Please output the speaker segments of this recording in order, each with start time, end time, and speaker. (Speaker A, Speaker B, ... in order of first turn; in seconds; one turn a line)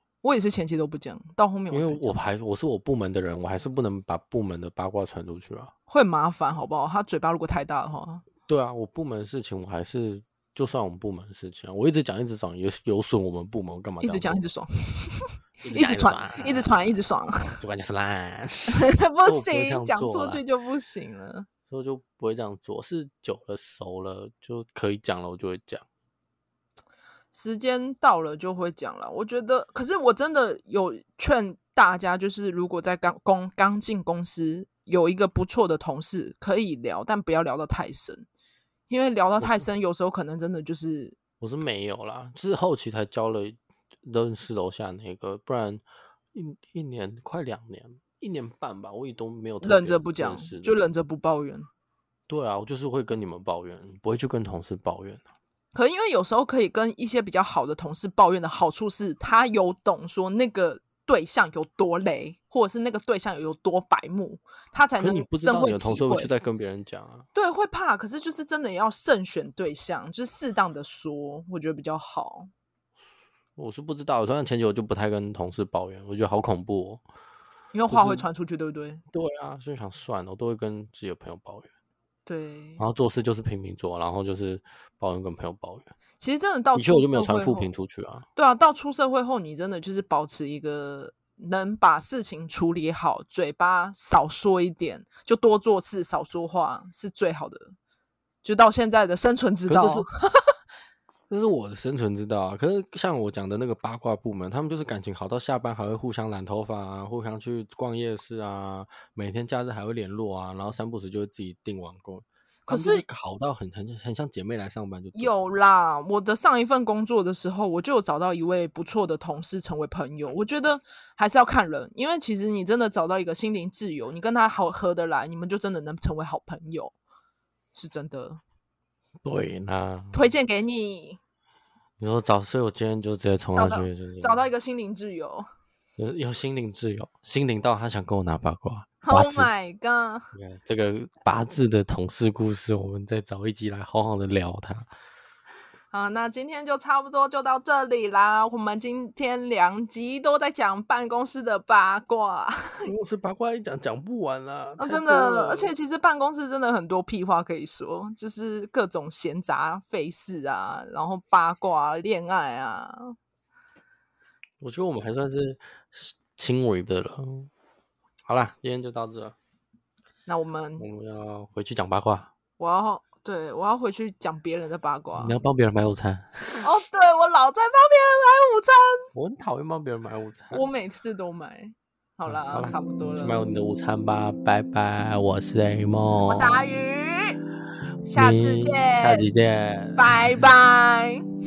Speaker A: 0.2-2.2
Speaker B: 1.7-5.7
Speaker A: 5.9-8.2
Speaker B: 8.5-14.4
Speaker A: 14.0-17.6
Speaker B: 15.6-16.7
Speaker B: 17.6-20.4
Speaker A: 18.7-21.5
Speaker B: 21.7-25.8
Speaker A: 27.3-38.2
Speaker A: 38.9-41.1
Speaker B: 39.4-39.6
Speaker B: 41.4-45.8
Speaker B: 46.3-50.8
Speaker A: 49.6-51.7
Speaker B: 52.3-55.2
Speaker A: 55.7-66.3
Speaker B: 65.0-67.2
Speaker A: 67.3-72.5
Speaker B: 73.6-77.0
Speaker A: 77.7-79.0
Speaker B: 77.9-78.2
Speaker B: 79.1-81.7
Speaker A: 82.2-82.8
Speaker B: 82.8-85.9
Speaker A: 86.2-87.7
Speaker B: 86.7-88.2
Speaker A: 88.3-97.7
Speaker A: 98.4-100.5
Speaker B: 99.7-100.0
Speaker B: 101.3-115.3
Speaker A: 112.7-113.0
Speaker A: 115.1-126.9
Speaker A: 127.7-128.4
Speaker B: 129.2-130.2
Speaker A: 130.1-131.2
Speaker B: 132.0-134.4
Speaker A: 133.5-135.4
Speaker B: 136.0-139.5
Speaker A: 139.0-140.3
Speaker B: 140.3-144.9
Speaker A: 145.9-152.9
Speaker B: 152.8-155.7
Speaker A: 154.8-163.0
Speaker B: 164.6-167.5
Speaker B: 168.3-169.3
Speaker A: 170.2-170.9
Speaker B: 170.8-172.3
Speaker A: 172.6-175.3
Speaker B: 175.2-176.7
Speaker A: 176.6-179.1
Speaker B: 179.1-180.6
Speaker A: 180.5-183.4
Speaker B: 182.3-186.6
Speaker A: 186.2-187.4
Speaker A: 188.1-189.2
Speaker B: 188.1-190.2
Speaker A: 189.9-191.2